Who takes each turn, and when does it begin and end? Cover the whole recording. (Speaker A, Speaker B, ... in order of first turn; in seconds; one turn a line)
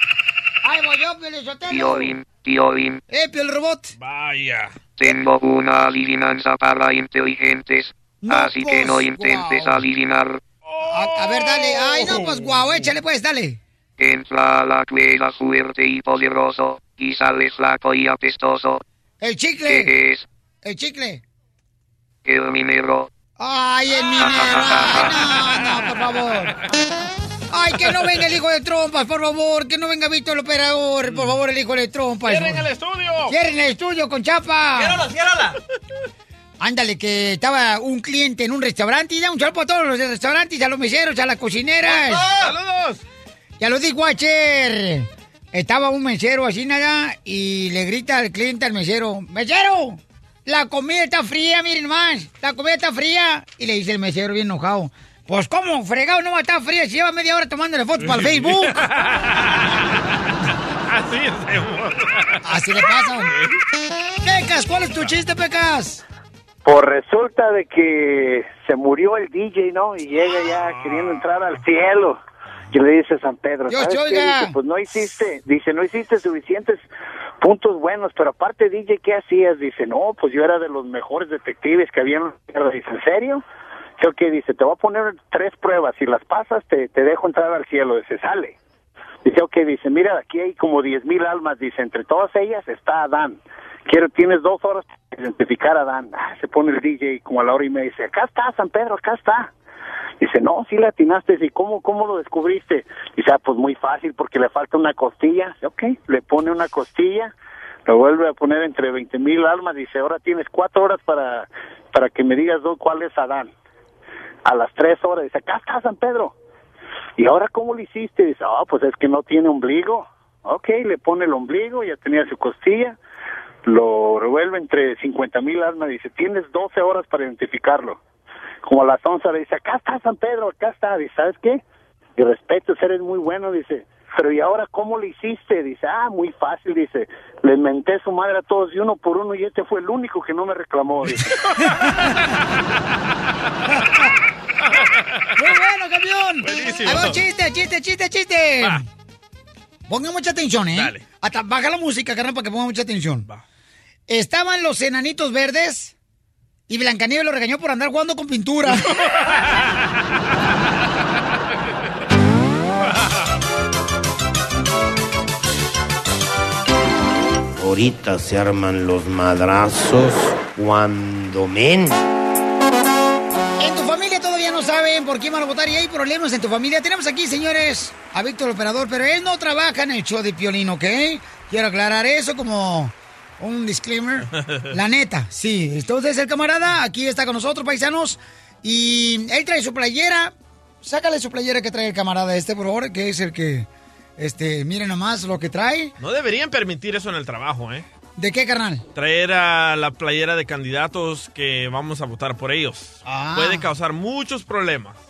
Speaker A: 0.6-2.1
Speaker B: 1.7-3.0
Speaker A: 3.1-3.9
Speaker C: 4.0-4.7
Speaker B: 5.0-10.4
Speaker A: 8.2-9.8
Speaker C: 10.7-12.7
Speaker A: 10.9-13.6
Speaker B: 14.0-18.8
Speaker A: 19.2-19.9
Speaker B: 19.7-20.2
Speaker A: 20.6-21.2
Speaker B: 22.2-23.1
Speaker A: 23.4-26.6
Speaker B: 24.2-25.1
Speaker A: 27.5-32.6
Speaker C: 31.1-31.3
Speaker C: 32.2-33.3
Speaker A: 33.3-35.0
Speaker C: 35.0-35.5
Speaker A: 36.6-42.5
Speaker C: 41.8-43.0
Speaker A: 43.6-58.8
Speaker C: 58.0-59.9
Speaker C: 60.9-62.4
Speaker A: 62.4-63.3
Speaker C: 63.2-63.6
Speaker A: 64.2-66.0
Speaker D: 66.7-72.2
Speaker C: 70.5-71.3
Speaker D: 72.7-76.8
Speaker A: 73.7-74.6
Speaker D: 77.4-83.4
Speaker D: 84.0-88.5
Speaker D: 89.2-99.5
Speaker D: 100.2-107.3
Speaker D: 107.9-113.5
Speaker D: 114.4-116.3
Speaker D: 117.2-123.0
Speaker D: 123.7-128.0
Speaker D: 128.7-131.6
Speaker D: 132.2-141.1
Speaker C: 141.5-142.1
Speaker A: 145.3-148.8
Speaker C: 146.4-147.2
Speaker A: 149.9-153.3
Speaker C: 150.7-151.0
Speaker A: 154.1-155.9
Speaker A: 156.7-158.9
Speaker C: 159.0-159.4
Speaker E: 167.6-171.9
Speaker A: 173.6-195.9
Speaker C: 196.0-197.8
Speaker A: 198.2-198.8
Speaker C: 198.9-204.9
Speaker A: 203.1-203.7